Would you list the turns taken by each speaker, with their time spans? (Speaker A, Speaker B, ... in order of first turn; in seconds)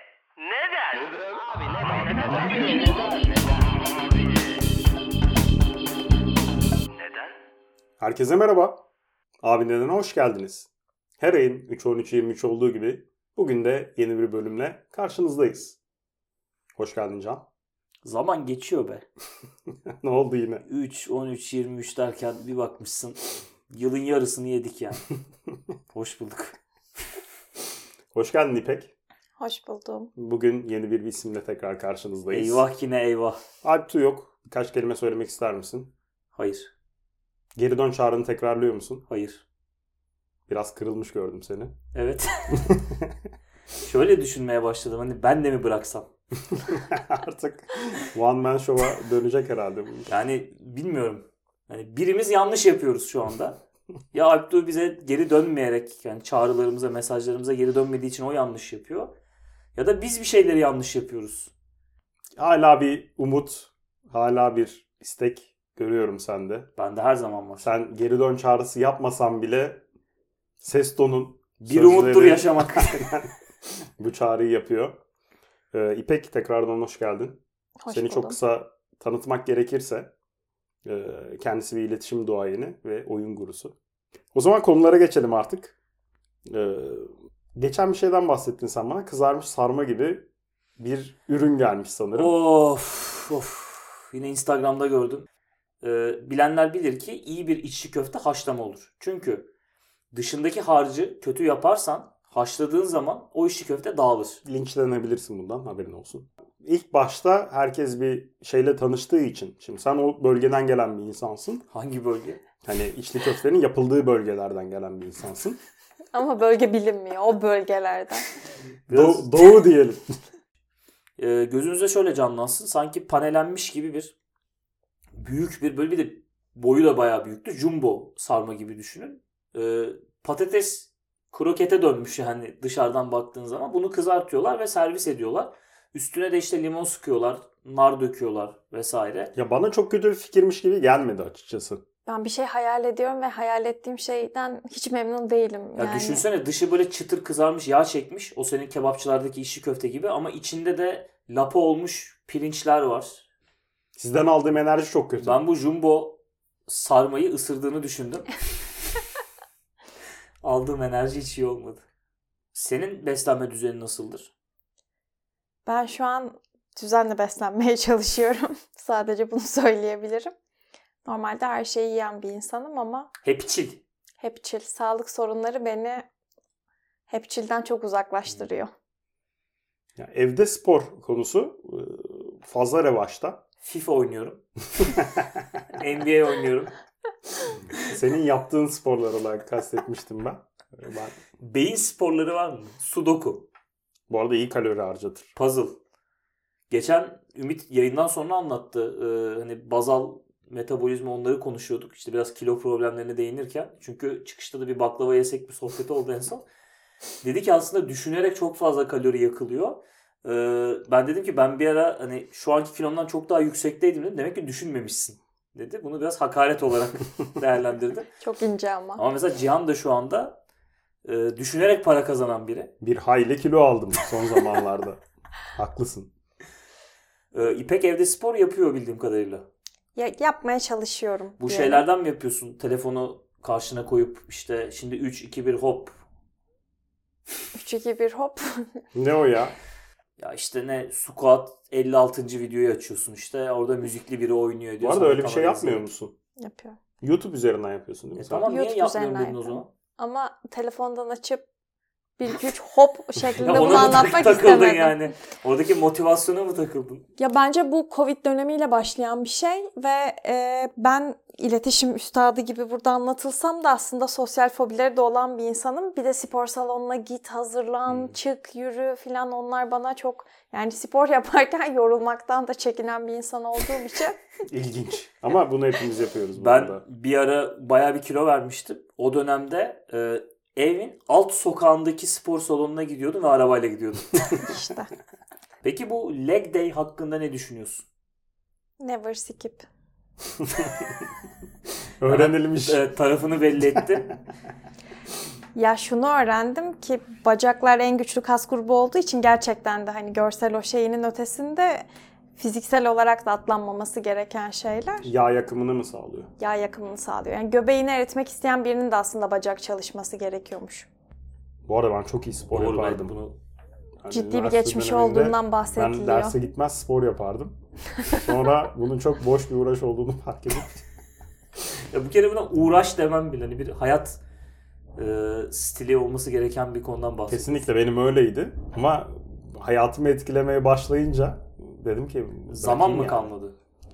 Speaker A: 0.4-3.4, 7.0-7.3
Speaker B: 8.0-8.8, 9.4-15.8, 16.8-17.4, 20.0-20.6, 28.1-28.9, 30.1-32.6, 33.6-35.9, 37.5-39.0, 40.5-41.7, 42.6-43.1, 46.7-50.1, 62.4-66.7, 67.6-69.8, 70.6-73.3, 74.0-75.0, 75.7-80.1, 80.8-83.7, 84.3-85.8, 86.5-92.3, 104.4-111.6, 112.6-115.6, 118.9-120.0, 139.3-141.8, 153.9-155.4, 180.0-183.4, 184.8-185.3, 187.8-191.2, 194.1-195.3, 222.8-225.0, 225.5-226.1, 238.9-239.5, 244.8-246.1, 247.0-248.5, 274.4-276.8, 292.0-292.8, 305.0-306.3, 311.7-313.1, 314.0-317.6, 318.1-320.8, 327.3-333.3
Speaker C: 18.0-19.0, 20.7-23.2, 23.7-25.0, 25.9-26.6, 32.3-33.4, 36.3-36.7, 39.1-39.4, 41.9-42.7, 43.8-46.1, 50.1-53.6, 54.1-59.1, 59.7-61.5, 66.8-67.7, 71.7-73.1, 92.1-95.3, 95.8-99.5, 100.1-104.4, 111.7-112.4, 118.9-119.3, 121.2-124.1, 125.2-139.3, 145.8-153.2, 155.2-158.3, 160.4-161.8, 162.5-164.3, 173.2-173.8, 183.6-184.4, 185.7-186.7, 191.4-193.5, 195.3-195.8, 196.7-206.4, 207.2-218.1, 219.0-220.4, 221.0-222.7, 227.3-229.5, 231.4-236.0, 240.2-245.8, 248.2-249.7, 253.4-257.1, 276.3-284.2, 285.6-287.9, 292.1-294.1, 312.5-313.4, 321.9-324.2, 325.0-327.6, 332.5-333.5
Speaker D: 29.4-30.1, 77.8-78.4, 116.1-118.2, 142.1-146.2, 165.7-170.3, 171.1-173.1, 174.2-176.1, 177.1-178.7, 218.2-219.0, 229.9-231.8, 237.5-238.7, 246.4-246.8, 248.4-251.4, 252.2-255.0, 257.2-274.2, 284.3-284.9, 288.8-289.6, 295.5-301.9, 302.4-305.1, 306.4-310.9, 314.1-316.4